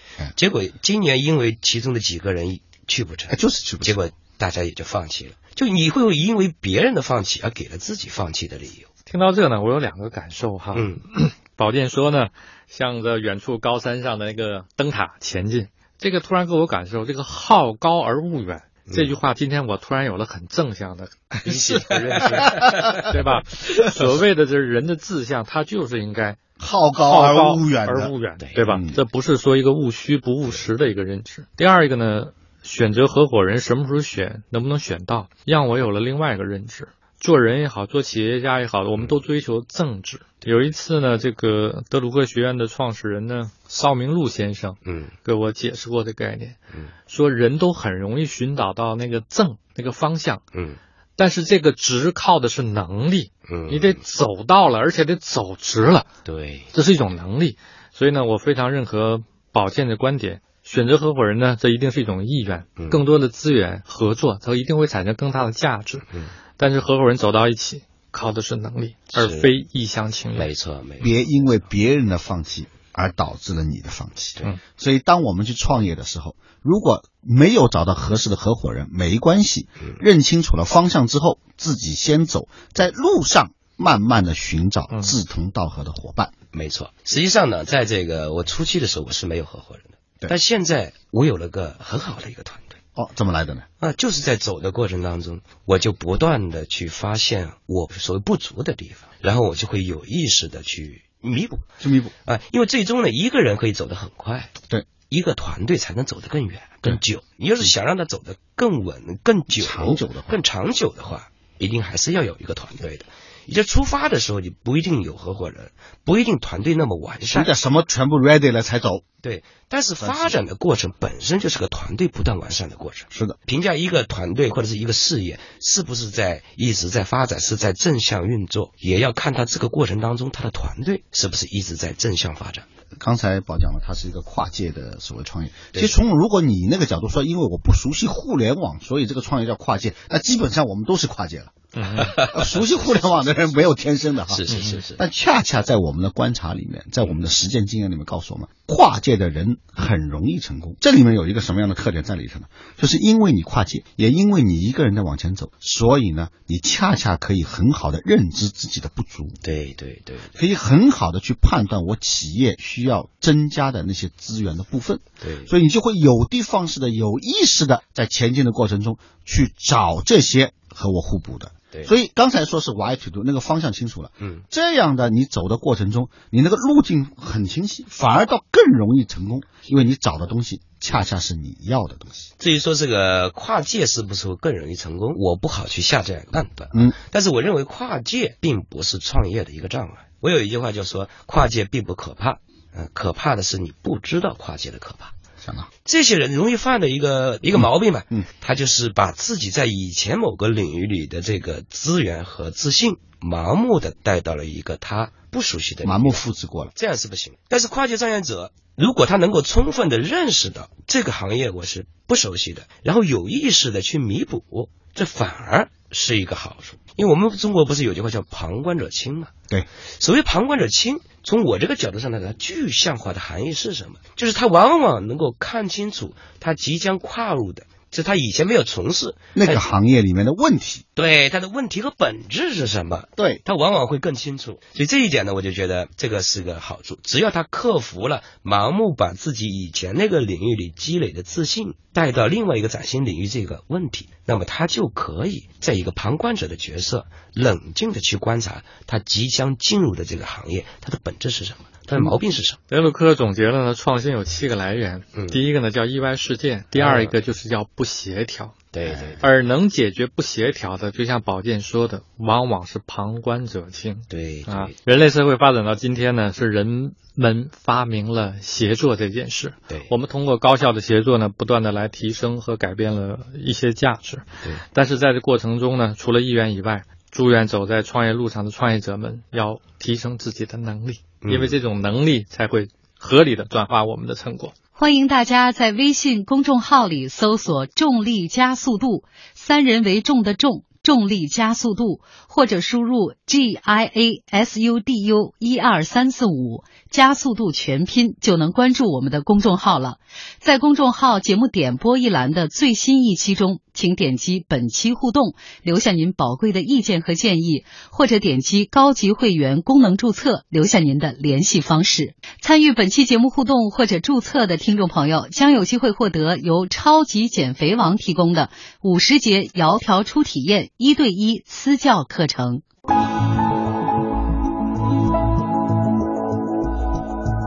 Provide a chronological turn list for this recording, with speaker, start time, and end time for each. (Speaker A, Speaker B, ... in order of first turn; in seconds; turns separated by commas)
Speaker A: 0.3-8.9, Speaker B: 3.3-4.0, Speaker C: 9.1-26.4, Speaker A: 10.7-11.0, Speaker A: 18.9-19.2, Speaker B: 21.5-22.5, Speaker A: 21.5-21.8, Speaker A: 22.3-22.9, Speaker B: 26.6-29.0, Speaker C: 27.0-50.4, Speaker A: 44.9-45.1, Speaker C: 51.2-56.1, Speaker A: 53.5-54.0, Speaker A: 56.2-56.7, Speaker C: 56.7-66.1, Speaker A: 62.8-63.0, Speaker C: 66.6-70.5, Speaker A: 69.1-69.5, Speaker A: 70.3-71.2, Speaker B: 71.0-86.3, Speaker C: 84.9-85.2, Speaker A: 86.5-92.8, Speaker B: 93.0-93.7, Speaker A: 93.8-101.7, Speaker B: 101.8-102.1, Speaker A: 102.2-104.5, Speaker A: 105.1-117.5, Speaker B: 109.5-110.4, Speaker B: 117.3-119.0, Speaker A: 119.2-132.7, Speaker B: 120.0-120.4, Speaker B: 133.0-159.3, Speaker C: 141.7-142.2, Speaker A: 142.2-143.4, Speaker A: 144.3-145.0, Speaker C: 144.5-144.8, Speaker A: 159.4-160.3, Speaker B: 160.3-182.3, Speaker A: 165.2-165.5, Speaker A: 182.4-195.1, Speaker B: 195.4-195.7, Speaker A: 195.8-206.2, Speaker B: 205.8-206.7, Speaker A: 206.7-219.3, Speaker A: 220.0-229.7, Speaker B: 229.3-230.8, Speaker A: 230.9-252.6, Speaker B: 233.2-233.4, Speaker C: 252.7-258.7, Speaker A: 255.1-255.4, Speaker A: 256.7-257.1, Speaker A: 258.7-259.2, Speaker C: 259.2-284.5, Speaker A: 264.1-264.7, Speaker A: 281.2-281.6, Speaker D: 284.8-322.6